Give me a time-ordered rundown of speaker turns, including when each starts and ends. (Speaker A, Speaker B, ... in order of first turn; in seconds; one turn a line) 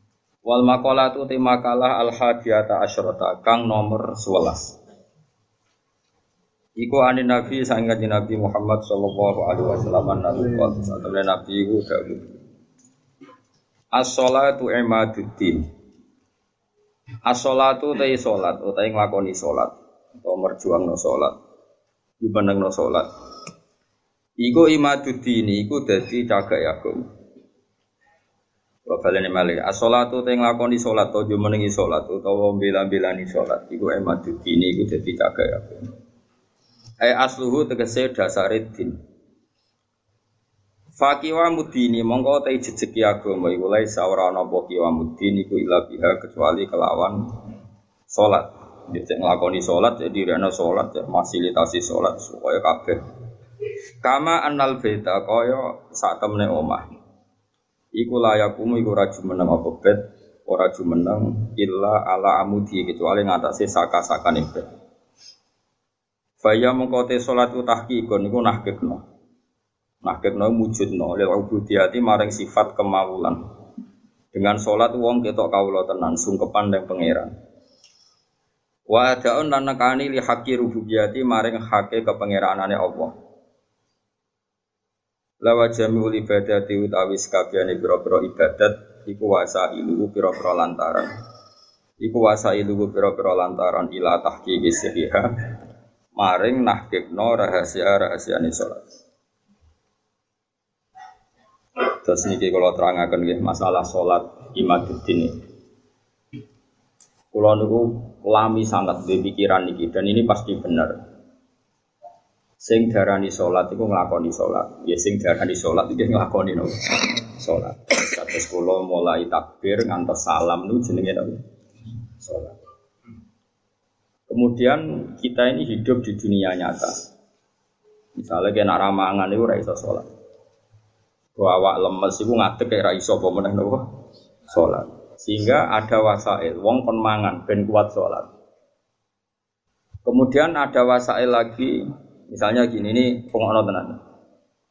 Speaker A: 0.5-4.8
Speaker A: 6.8-12.3
Speaker A: 13.9-15.7
Speaker A: 17.3-21.4
Speaker A: 22.2-23.1
Speaker A: 24.4-27.1
Speaker A: 28.9-35.9
Speaker A: 37.0-39.0
Speaker A: 41.0-47.2
Speaker A: 48.1-53.0
Speaker A: 54.0-56.9
Speaker A: 57.9-64.7
Speaker A: 66.4-69.0
Speaker A: 70.0-73.4
Speaker A: 74.3-77.3
Speaker A: 78.9-83.1
Speaker A: 85.4-91.1
Speaker A: 92.0-95.3
Speaker A: 96.2-98.8
Speaker A: 102.0-105.3
Speaker A: 107.3-111.0
Speaker A: 112.6-121.4
Speaker A: 122.2-122.5
Speaker A: 124.3-126.9
Speaker A: 128.2-130.1
Speaker A: 131.4-133.8
Speaker A: 134.5-138.3
Speaker A: 140.1-144.0